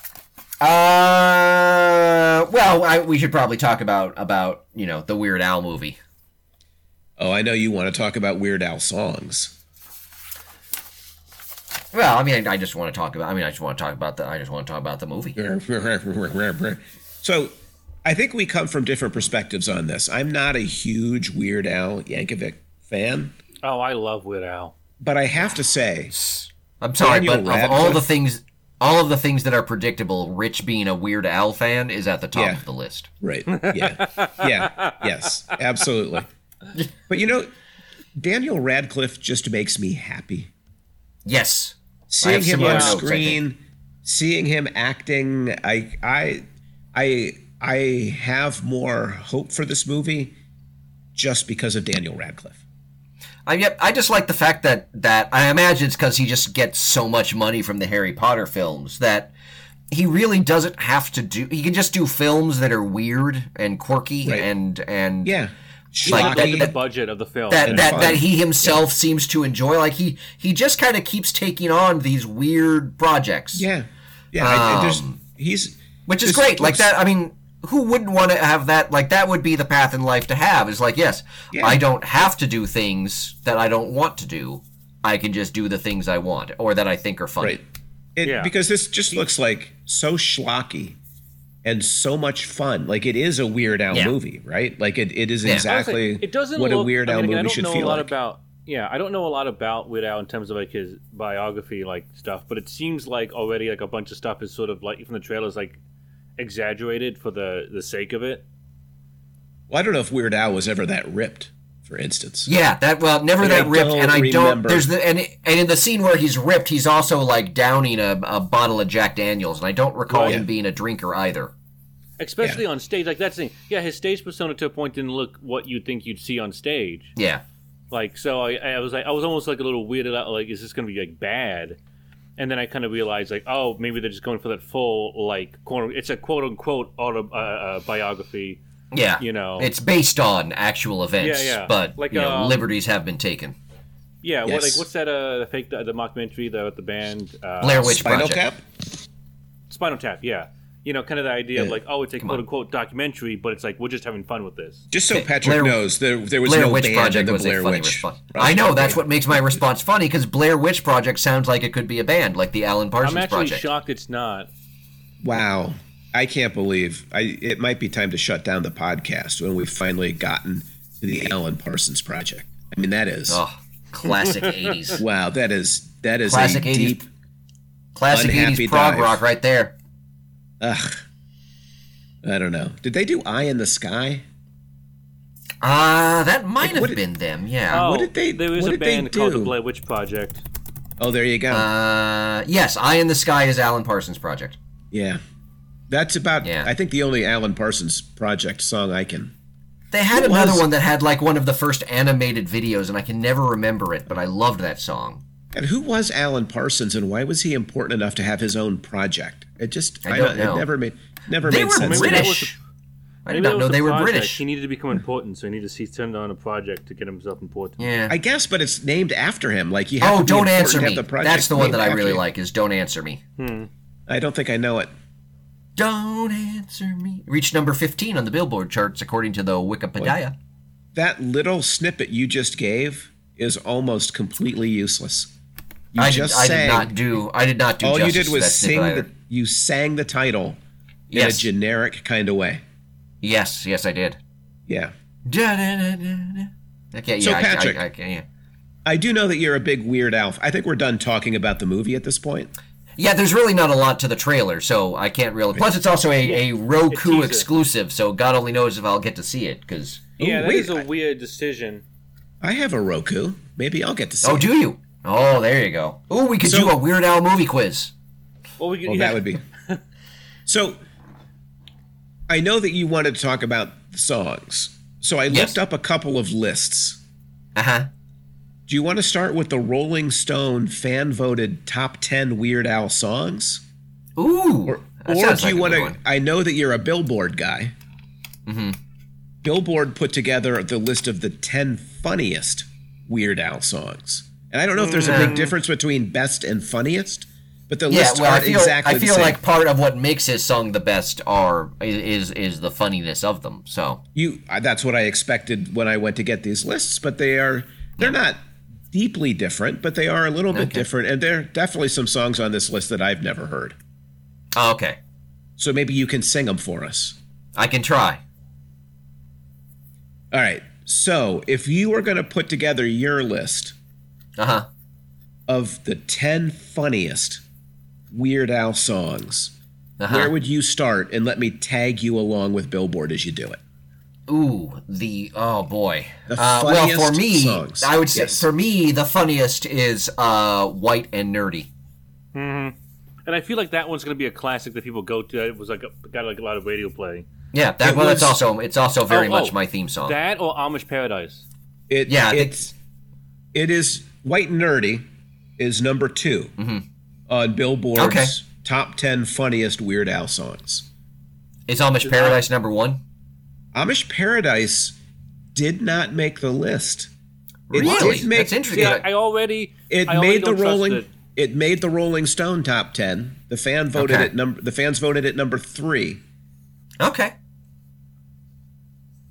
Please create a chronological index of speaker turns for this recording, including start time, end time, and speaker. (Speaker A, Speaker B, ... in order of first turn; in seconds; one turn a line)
Speaker A: 0.6-6.0
Speaker B: 7.2-9.6
Speaker A: 11.9-15.4
Speaker B: 15.4-17.5
Speaker B: 18.0-23.4
Speaker C: 23.6-24.8
Speaker B: 25.0-26.1
Speaker A: 26.1-33.1
Speaker B: 27.0-28.1
Speaker B: 32.3-32.6
Speaker B: 33.2-36.3
Speaker C: 33.5-35.0
Speaker B: 37.1-37.5
Speaker B: 38.2-40.5
Speaker A: 41.3-43.4
Speaker B: 42.1-50.4
Speaker C: 42.6-43.0
Speaker B: 51.1-52.6
Speaker A: 53.5-59.3
Speaker A: 59.9-65.4
Speaker B: 65.2-66.7
Speaker A: 66.0-66.7
Speaker C: 66.0-68.2
Speaker A: 67.5-73.7
Speaker B: 67.7-68.8
Speaker B: 73.5-76.9
Speaker A: 74.4-75.2
Speaker A: 76.1-87.6
Speaker B: 81.5-81.8
Speaker B: 88.2-91.0
Speaker C: 88.2-88.5
Speaker B: 91.6-98.1
Speaker C: 95.7-105.8
Speaker C: 106.4-108.4
Speaker B: 109.7-112.5
Speaker A: 112.5-121.5
Speaker B: 113.4-114.9
Speaker C: 120.1-120.4
Speaker C: 122.2-127.1
Speaker A: 127.2-127.4
Speaker C: 127.9-131.8
Speaker C: 132.4-138.6
Speaker A: 138.9-143.6
Speaker C: 139.2-139.7
Speaker C: 141.2-142.6
Speaker C: 144.2-147.9
Speaker B: 144.5-144.9
Speaker A: 147.6-148.4
Speaker B: 147.8-148.6
Speaker C: 149.7-154.9
Speaker B: 154.9-159.6
Speaker A: 155.1-155.8
Speaker A: 156.4-163.7
Speaker C: 163.0-164.5
Speaker B: 165.2-173.4
Speaker A: 173.3-175.0
Speaker C: 174.3-174.7
Speaker B: 175.0-177.1
Speaker A: 176.3-177.0
Speaker A: 178.0-179.7
Speaker B: 178.1-179.2
Speaker B: 180.6-181.0
Speaker B: 182.2-184.2
Speaker A: 185.6-187.9
Speaker B: 186.6-187.0
Speaker B: 187.7-189.6
Speaker C: 187.7-190.4
Speaker B: 191.0-191.7
Speaker A: 191.5-194.6
Speaker B: 194.9-195.2
Speaker B: 195.9-199.3
Speaker A: 196.4-196.7
Speaker A: 199.9-205.2
Speaker B: 200.1-200.7
Speaker B: 205.5-212.4
Speaker A: 210.1-210.7
Speaker A: 211.4-212.6
Speaker C: 211.8-212.6
Speaker A: 213.3-214.4
Speaker C: 213.3-217.8
Speaker A: 217.8-218.2
Speaker B: 218.1-222.2
Speaker A: 220.0-223.2
Speaker C: 223.4-223.7
Speaker B: 224.1-224.9
Speaker A: 225.8-230.3
Speaker B: 230.9-235.3
Speaker B: 235.9-236.9
Speaker A: 236.0-239.1
Speaker B: 237.8-240.6
Speaker A: 241.1-241.5
Speaker B: 241.1-242.6
Speaker A: 243.2-244.2
Speaker B: 244.7-244.9
Speaker A: 245.3-248.2
Speaker B: 247.2-247.8
Speaker B: 248.9-252.5
Speaker A: 253.0-260.1
Speaker C: 256.9-257.5
Speaker B: 260.2-260.9
Speaker C: 260.2-261.8
Speaker B: 262.4-264.5
Speaker A: 264.2-267.9
Speaker B: 266.4-266.8
Speaker C: 268.6-269.8
Speaker B: 268.9-269.4
Speaker B: 270.5-270.8
Speaker B: 272.3-277.0
Speaker A: 275.3-275.6
Speaker A: 277.6-277.9
Speaker B: 278.7-283.6
Speaker A: 284.2-286.0
Speaker B: 284.7-287.7
Speaker A: 288.5-288.8
Speaker B: 289.4-299.4
Speaker C: 294.8-295.5
Speaker A: 295.0-295.5
Speaker A: 297.9-304.0
Speaker B: 304.1-308.4
Speaker B: 308.9-313.8
Speaker A: 310.5-310.9
Speaker A: 314.6-315.0
Speaker B: 315.6-317.2
Speaker A: 317.6-318.2
Speaker B: 320.3-323.8
Speaker A: 324.4-324.7
Speaker B: 325.5-327.4
Speaker B: 328.1-329.5
Speaker A: 330.0-330.3
Speaker B: 330.1-333.6
Speaker A: 334.3-341.7
Speaker B: 336.3-338.5
Speaker C: 342.3-342.8
Speaker C: 343.3-347.3
Speaker A: 347.5-350.2
Speaker B: 347.8-348.4
Speaker C: 349.1-351.4
Speaker B: 351.9-352.7
Speaker A: 352.1-352.7
Speaker B: 353.5-355.1
Speaker B: 355.6-356.5
Speaker A: 356.6-356.8
Speaker B: 357.3-360.9
Speaker A: 358.0-358.4
Speaker A: 361.7-363.0
Speaker C: 362.0-362.4
Speaker B: 363.7-365.0
Speaker B: 365.5-367.1
Speaker A: 367.7-369.1
Speaker B: 367.7-368.9
Speaker C: 367.9-368.2
Speaker C: 368.7-371.1
Speaker B: 369.9-376.2
Speaker A: 374.0-374.3
Speaker A: 377.0-377.3